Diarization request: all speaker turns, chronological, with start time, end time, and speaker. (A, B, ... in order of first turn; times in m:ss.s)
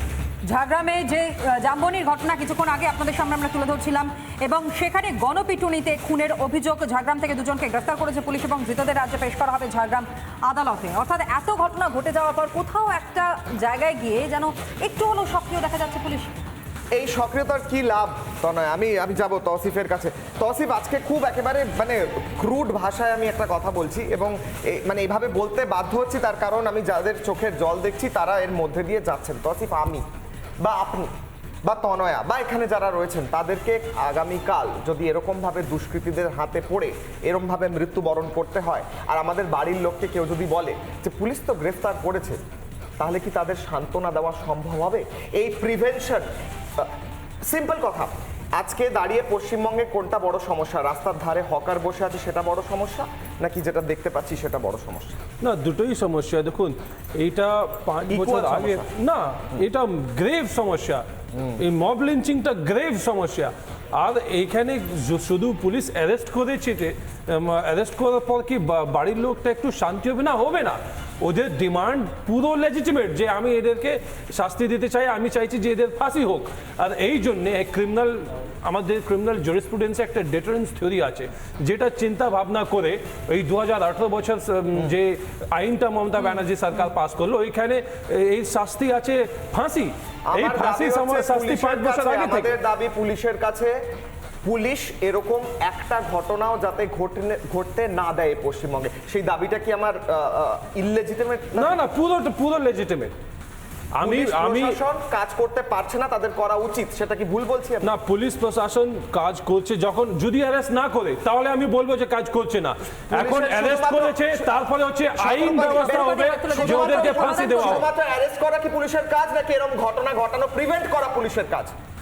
0:00.4-0:16.4 A
0:16.9-0:30.0 B
0:30.6-0:31.1 B
0:31.6-0:42.4 B
0:43.0-0:46.2 B
0:47.5-0:55.2 B
0:55.4-1:01.0 C
0:58.1-0:58.9 B
1:01.6-1:32.6 C
1:30.3-1:33.8 B
1:34.4-1:41.8 B
1:41.6-1:43.1 C
1:44.0-1:44.8 C
1:44.0-1:47.9 B
1:47.8-1:57.9 C
1:52.9-1:54.6 B
1:55.1-2:01.7 B
1:55.7-1:57.8 A